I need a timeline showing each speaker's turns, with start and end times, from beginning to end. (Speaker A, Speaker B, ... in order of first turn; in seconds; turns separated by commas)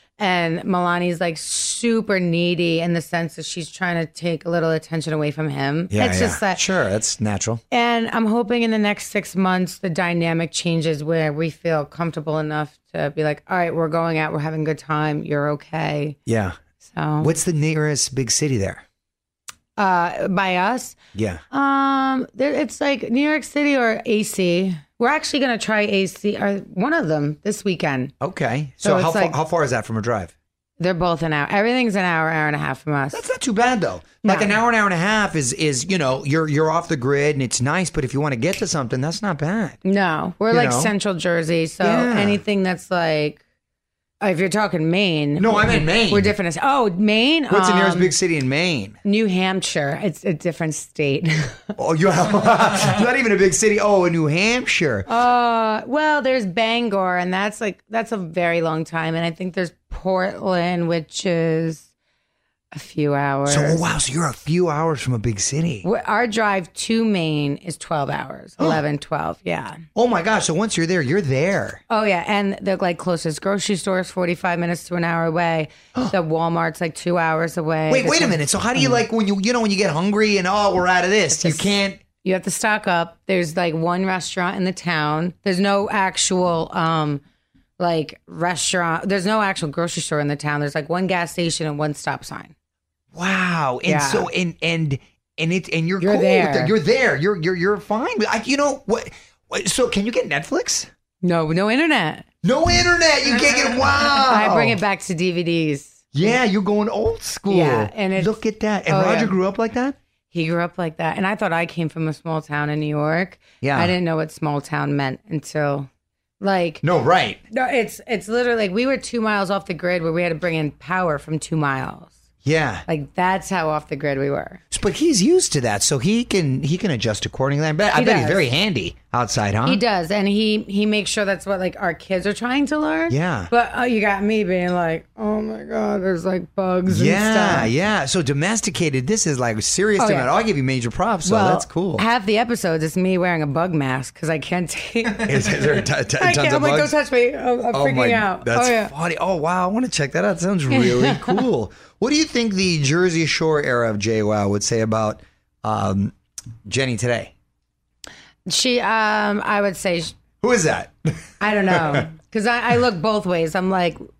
Speaker A: 0.2-6.7, Speaker B: 5.9-7.6, Speaker A: 7.7-16.2, Speaker B: 16.3-16.6, Speaker A: 16.9-17.3, Speaker B: 17.2-18.8, Speaker A: 19.8-21.0, Speaker B: 21.1-21.4, Speaker A: 21.5-28.1, Speaker B: 28.2-30.3, Speaker A: 28.8-29.4, Speaker A: 30.8-33.3, Speaker B: 33.1-39.8, Speaker A: 34.2-34.6, Speaker A: 39.8-43.4, Speaker B: 40.5-40.9, Speaker B: 41.8-42.4, Speaker A: 44.2-48.1, Speaker B: 45.4-46.3, Speaker B: 47.5-49.0, Speaker A: 49.0-51.8, Speaker B: 51.8-55.1, Speaker A: 55.1-61.9, Speaker A: 62.7-63.8, Speaker B: 63.5-65.9, Speaker A: 65.8-69.8, Speaker B: 70.0-71.8, Speaker A: 71.9-79.0, Speaker B: 77.9-82.0, Speaker A: 81.3-81.7, Speaker A: 82.2-87.2, Speaker A: 87.8-92.5, Speaker B: 93.1-100.9, Speaker A: 93.8-94.3, Speaker A: 96.0-96.7, Speaker A: 101.2-102.3, Speaker B: 102.4-104.8, Speaker A: 104.2-106.1, Speaker B: 106.1-110.0, Speaker A: 107.5-109.3, Speaker A: 110.3-115.9, Speaker B: 113.6-113.9, Speaker A: 116.4-116.8, Speaker B: 116.8-117.4, Speaker A: 117.5-122.2, Speaker B: 122.4-122.8, Speaker A: 122.9-124.6, Speaker B: 124.7-129.8, Speaker A: 127.9-128.5, Speaker A: 129.7-137.7, Speaker B: 133.1-133.5, Speaker B: 136.9-142.0, Speaker A: 140.0-140.3, Speaker A: 141.2-148.9, Speaker B: 145.2-146.9, Speaker B: 147.7-156.2, Speaker A: 150.7-151.4, Speaker B: 156.7-157.3, Speaker A: 158.5-160.2, Speaker B: 160.4-162.0, Speaker A: 161.4-164.0